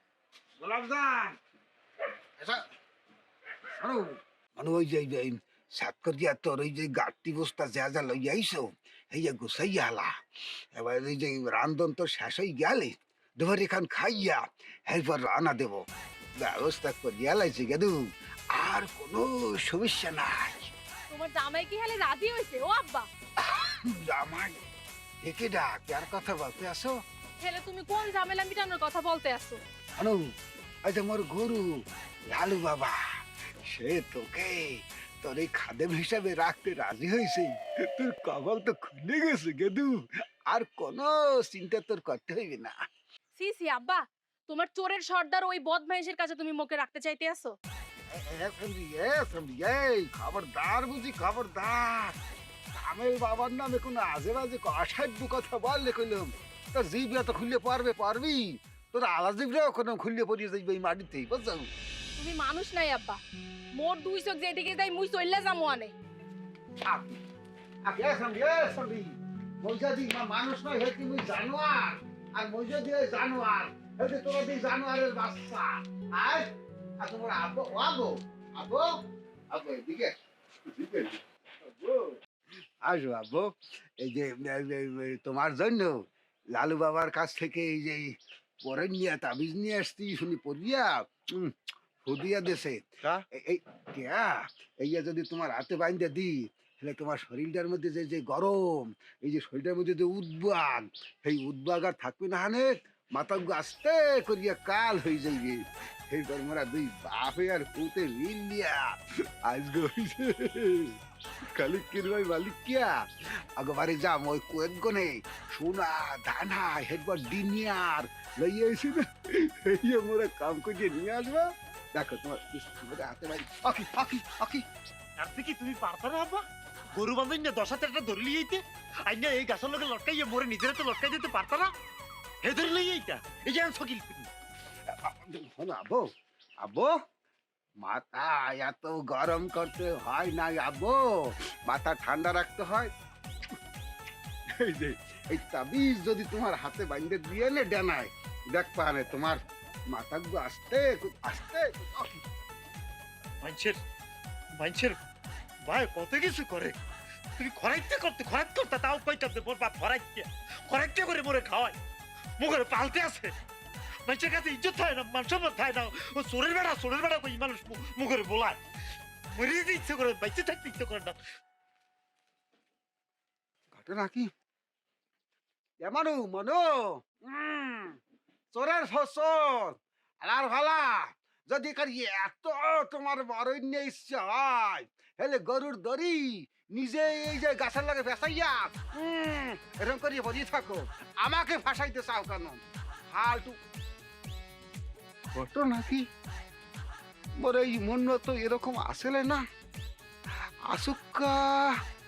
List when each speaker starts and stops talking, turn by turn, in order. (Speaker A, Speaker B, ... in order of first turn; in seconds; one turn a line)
Speaker A: 0.6-1.4
Speaker A: 3.8-10.1
Speaker A: 10.7-15.8
Speaker A: 16.4-18.0
Speaker A: 18.5-20.7
Speaker B: 21.1-23.1
Speaker A: 23.5-24.6
Speaker A: 25.2-26.9
Speaker B: 27.4-29.6
Speaker A: 30.0-30.2
Speaker A: 30.9-31.7
Speaker A: 32.3-33.0
Speaker A: 33.6-42.8
Speaker B: 43.4-47.6
Speaker A: 48.1-52.1
Speaker A: 52.8-61.7
Speaker B: 62.2-63.2
Speaker B: 63.8-65.9
Speaker A: 66.9-67.2
Speaker A: 67.9-76.4
Speaker A: 77.0-78.9
Speaker A: 79.5-80.1
Speaker A: 80.7-82.2
Speaker A: 82.8-91.5
Speaker A: 92.0-111.0
Speaker A: 111.5-113.0
Speaker A: 113.6-124.6
Speaker C: 125.2-126.4
Speaker C: 126.9-131.7
Speaker C: 132.4-134.3
Speaker A: 134.9-136.1
Speaker A: 136.6-136.9
Speaker A: 137.8-142.9
Speaker A: 144.6-152.2
Speaker C: 153.4-153.8
Speaker C: 154.6-155.0
Speaker C: 155.7-156.8
Speaker C: 157.4-161.8
Speaker C: 162.4-163.3
Speaker C: 164.1-168.6
Speaker C: 169.3-171.2
Speaker A: 173.7-174.3
Speaker A: 175.8-178.0
Speaker A: 178.5-193.6
Speaker A: 195.3-196.1
Speaker A: 197.4-199.4
Speaker A: 200.7-201.8